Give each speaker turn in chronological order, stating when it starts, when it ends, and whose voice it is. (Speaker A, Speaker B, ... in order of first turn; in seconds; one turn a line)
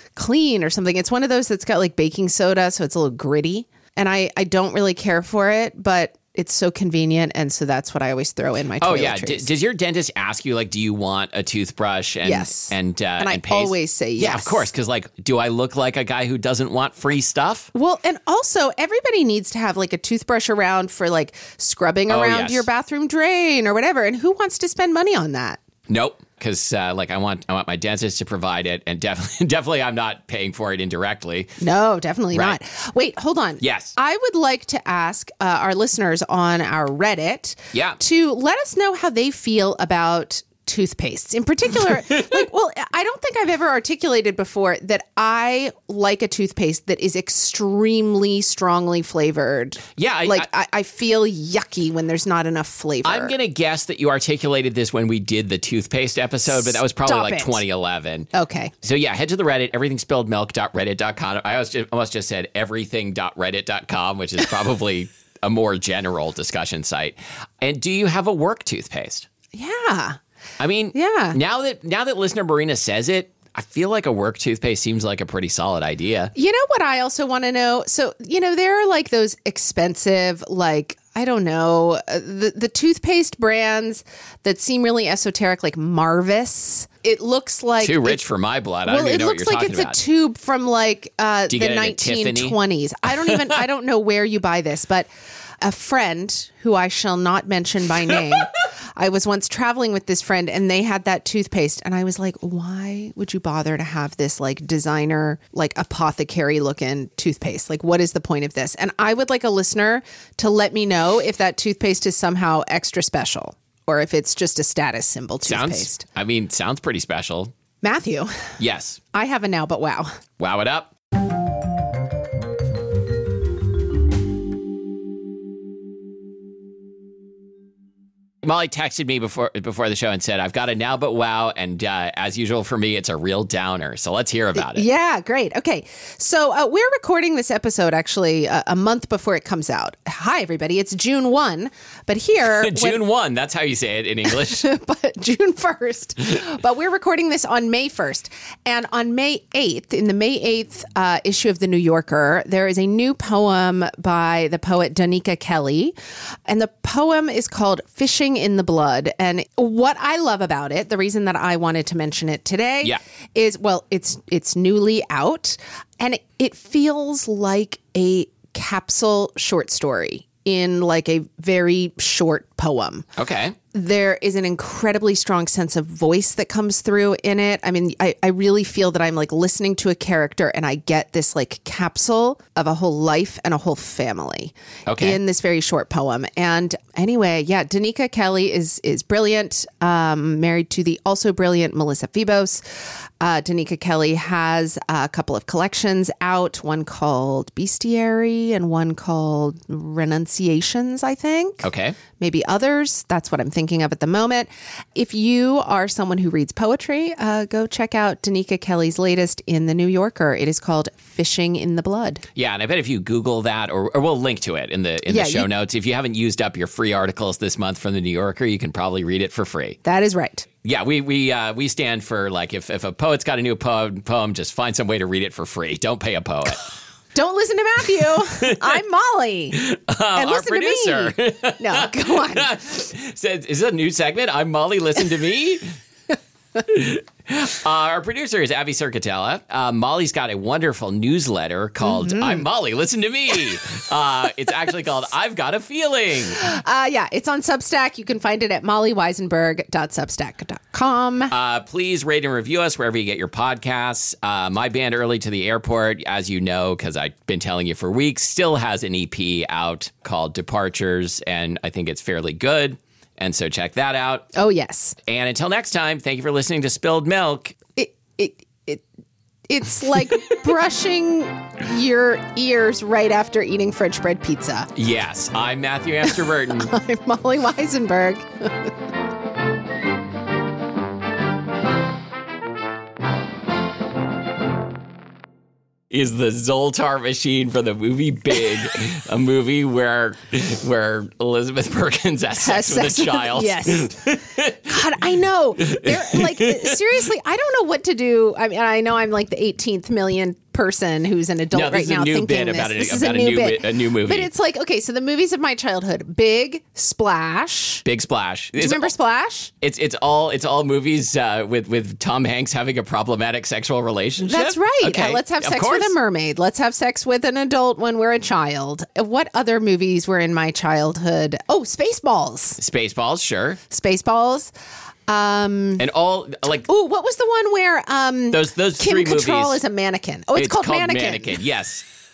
Speaker A: 0.2-9.5
Speaker B: 8.8-17.7
Speaker A: 12.2-14.7
Speaker A: 17.7-25.6
Speaker B: 22.1-22.7
Speaker B: 25.9-31.6
Speaker A: 31.6-53.4
Speaker B: 32.3-32.6
Speaker B: 33.6-34.0
Speaker B: 37.7-38.0
Speaker B: 50.0-50.5
Speaker B: 53.0-58.3
Speaker A: 56.5-57.6
Speaker A: 58.3-58.7
Speaker B: 58.8-69.3
Speaker A: 69.5-70.2
Speaker B: 70.6-76.3
Speaker A: 70.9-71.4
Speaker A: 76.3-88.2
Speaker B: 87.8-90.0
Speaker A: 88.9-95.1
Speaker B: 91.5-92.6
Speaker A: 95.6-116.0
Speaker B: 115.5-117.5
Speaker A: 117.8-118.5
Speaker B: 118.6-119.0
Speaker A: 119.1-120.2
Speaker B: 120.4-120.9
Speaker B: 128.4-134.9
Speaker A: 134.6-143.0
Speaker B: 142.5-144.7
Speaker A: 144.2-155.9
Speaker A: 156.5-173.1
Speaker B: 173.2-173.6
Speaker A: 173.7-192.6
Speaker B: 184.9-185.2
Speaker A: 193.2-201.7
Speaker B: 201.6-202.0
Speaker A: 202.2-212.2
Speaker B: 212.3-219.8
Speaker A: 215.1-215.5
Speaker A: 219.8-220.5
Speaker B: 220.6-226.6
Speaker A: 227.2-229.6
Speaker B: 228.1-228.8
Speaker B: 229.5-235.8
Speaker A: 230.1-232.5
Speaker B: 236.6-246.4
Speaker A: 241.8-242.4
Speaker A: 246.3-251.3
Speaker B: 251.3-264.3
Speaker A: 264.3-265.0
Speaker B: 265.1-267.6
Speaker A: 267.8-268.8
Speaker A: 269.5-274.7
Speaker B: 274.8-276.8
Speaker A: 276.1-278.7
Speaker B: 285.9-295.1
Speaker A: 292.4-294.0
Speaker A: 294.7-307.9
Speaker B: 295.6-297.1
Speaker B: 301.5-304.3
Speaker B: 307.9-308.9
Speaker A: 308.6-309.5
Speaker B: 309.6-315.9
Speaker A: 314.2-322.6
Speaker B: 322.6-323.6
Speaker A: 323.7-324.5
Speaker A: 325.1-325.9
Speaker B: 325.8-326.7
Speaker A: 326.7-331.4
Speaker B: 328.3-329.6
Speaker B: 330.4-331.9